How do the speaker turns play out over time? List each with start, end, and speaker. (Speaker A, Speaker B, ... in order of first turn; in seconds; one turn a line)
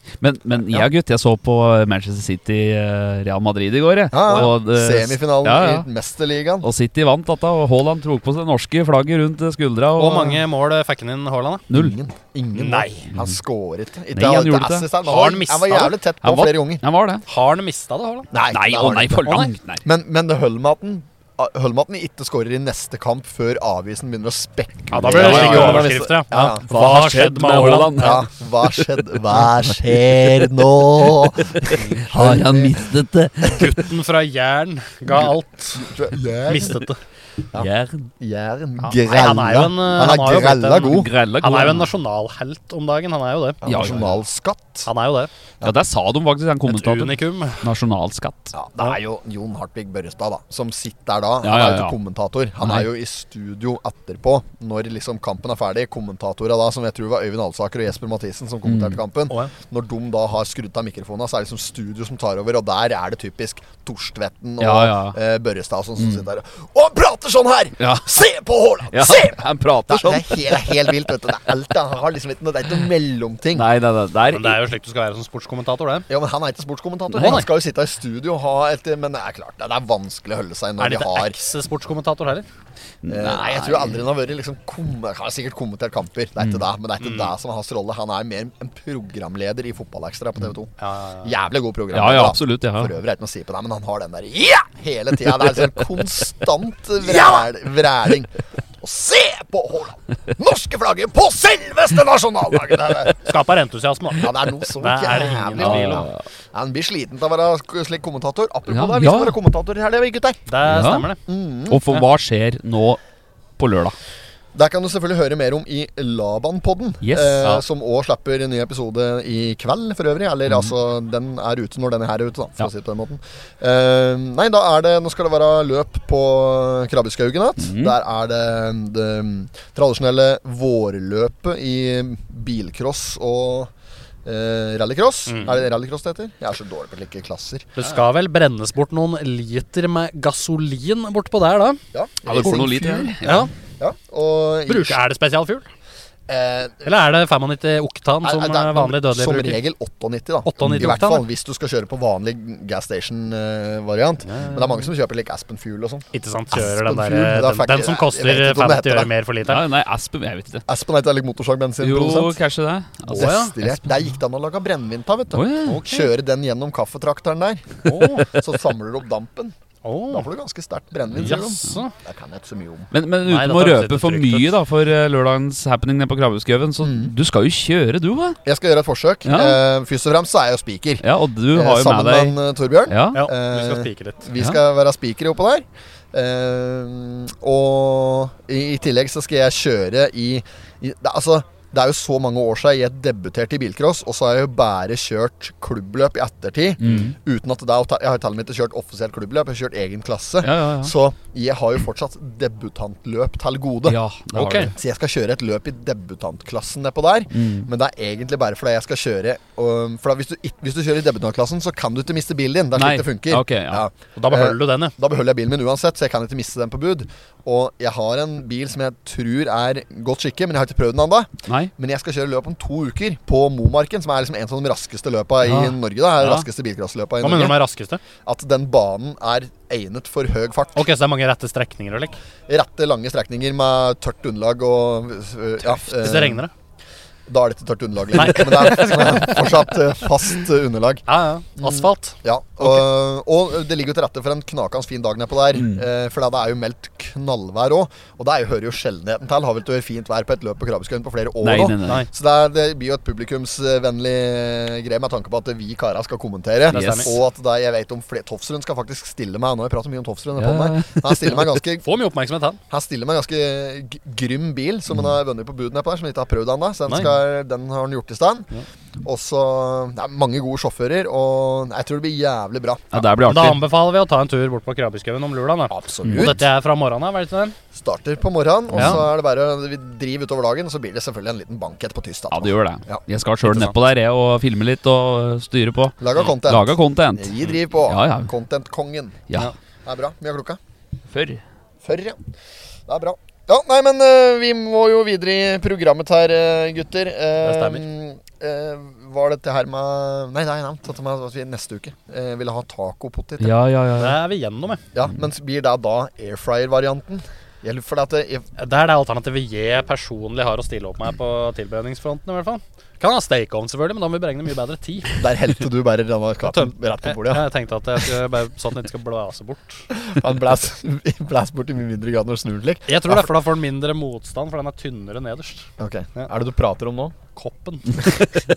Speaker A: 0.2-5.9
Speaker B: 4.1-6.7
Speaker A: 6.6-10.4
Speaker C: 10.0-11.7
Speaker B: 11.7-16.8
Speaker C: 12.6-13.1
Speaker A: 14.1-14.9
Speaker C: 15.0-16.0
Speaker A: 16.2-17.2
Speaker C: 17.3-18.3
Speaker B: 18.3-26.6
Speaker A: 18.5-19.8
Speaker C: 19.2-19.5
Speaker C: 24.9-28.2
Speaker A: 25.0-26.0
Speaker A: 26.7-33.8
Speaker B: 28.0-32.9
Speaker C: 33.5-35.9
Speaker B: 35.2-36.9
Speaker C: 36.5-37.0
Speaker A: 37.5-38.1
Speaker B: 38.2-41.1
Speaker C: 38.8-44.0
Speaker A: 40.8-41.9
Speaker B: 43.6-44.9
Speaker A: 43.6-44.2
Speaker C: 44.9-45.3
Speaker A: 45.6-48.6
Speaker C: 46.7-47.7
Speaker B: 48.5-73.7
Speaker A: 51.4-52.0
Speaker A: 52.6-52.9
Speaker A: 58.7-59.0
Speaker A: 64.6-65.2
Speaker A: 67.8-68.2
Speaker A: 68.9-71.1
Speaker A: 73.5-74.6
Speaker C: 74.3-76.1
Speaker B: 76.1-81.4
Speaker C: 77.1-77.5
Speaker C: 80.8-82.5
Speaker A: 83.0-84.0
Speaker B: 83.1-90.7
Speaker C: 87.0-87.3
Speaker C: 90.8-91.3
Speaker B: 91.2-103.2
Speaker A: 91.9-92.9
Speaker C: 103.2-106.1
Speaker B: 104.2-110.4
Speaker A: 105.6-106.2
Speaker A: 108.7-109.4
Speaker C: 110.5-111.2
Speaker A: 110.6-111.1
Speaker B: 111.3-111.8
Speaker A: 111.7-113.0
Speaker A: 113.6-114.0
Speaker B: 114.5-133.7
Speaker A: 117.0-117.5
Speaker A: 127.6-128.0
Speaker B: 134.2-137.8
Speaker C: 135.3-135.6
Speaker C: 137.8-141.8
Speaker B: 141.9-143.2
Speaker A: 142.3-143.5
Speaker C: 143.2-143.5
Speaker B: 143.8-145.0
Speaker C: 144.7-145.7
Speaker B: 146.3-146.9
Speaker C: 146.8-149.6
Speaker B: 148.2-159.1
Speaker C: 150.4-151.3
Speaker C: 154.2-154.9
Speaker C: 156.1-159.6
Speaker A: 159.4-160.7
Speaker B: 160.7-162.4
Speaker A: 161.8-163.7
Speaker B: 163.1-169.6
Speaker C: 163.1-163.6
Speaker A: 165.3-165.8
Speaker C: 165.6-166.1
Speaker C: 167.9-168.3
Speaker C: 169.8-170.3
Speaker B: 170.1-172.9
Speaker C: 171.2-171.9
Speaker A: 172.9-178.4
Speaker C: 173.3-174.5
Speaker B: 176.8-177.1
Speaker B: 178.4-204.0
Speaker A: 179.3-179.6
Speaker A: 181.0-183.2
Speaker C: 183.1-184.3
Speaker A: 196.8-197.2
Speaker C: 196.8-197.1
Speaker A: 200.4-200.9
Speaker A: 203.9-204.7
Speaker C: 204.3-204.7
Speaker B: 204.7-227.6
Speaker A: 207.3-207.7
Speaker A: 212.8-213.9
Speaker C: 214.2-214.9
Speaker A: 225.4-226.4
Speaker C: 227.2-228.0
Speaker B: 228.2-230.9
Speaker C: 230.8-232.2
Speaker B: 232.5-236.4
Speaker C: 235.6-236.5
Speaker B: 237.3-241.1
Speaker C: 238.2-239.6
Speaker C: 241.1-242.8
Speaker B: 241.6-261.9
Speaker A: 245.6-245.8
Speaker A: 251.4-252.1
Speaker C: 256.7-257.1
Speaker A: 256.7-257.2
Speaker A: 260.4-261.5
Speaker C: 261.8-262.6
Speaker B: 262.7-268.5
Speaker B: 269.0-273.1
Speaker A: 272.9-273.7
Speaker C: 273.2-277.6
Speaker B: 275.7-276.4
Speaker A: 276.0-276.4
Speaker B: 277.7-283.0
Speaker A: 278.7-279.1
Speaker C: 278.8-279.0
Speaker A: 282.3-288.3
Speaker C: 283.5-283.7
Speaker B: 286.0-289.2
Speaker B: 289.9-290.6
Speaker A: 291.1-291.4
Speaker B: 291.8-292.2
Speaker B: 292.9-303.6
Speaker C: 297.4-297.9
Speaker A: 303.4-304.2
Speaker C: 304.0-304.8
Speaker B: 304.9-308.5
Speaker C: 308.6-315.2
Speaker B: 315.2-317.5
Speaker C: 316.5-319.9
Speaker B: 319.9-323.3
Speaker C: 322.9-326.3
Speaker B: 325.8-327.2
Speaker C: 327.4-328.2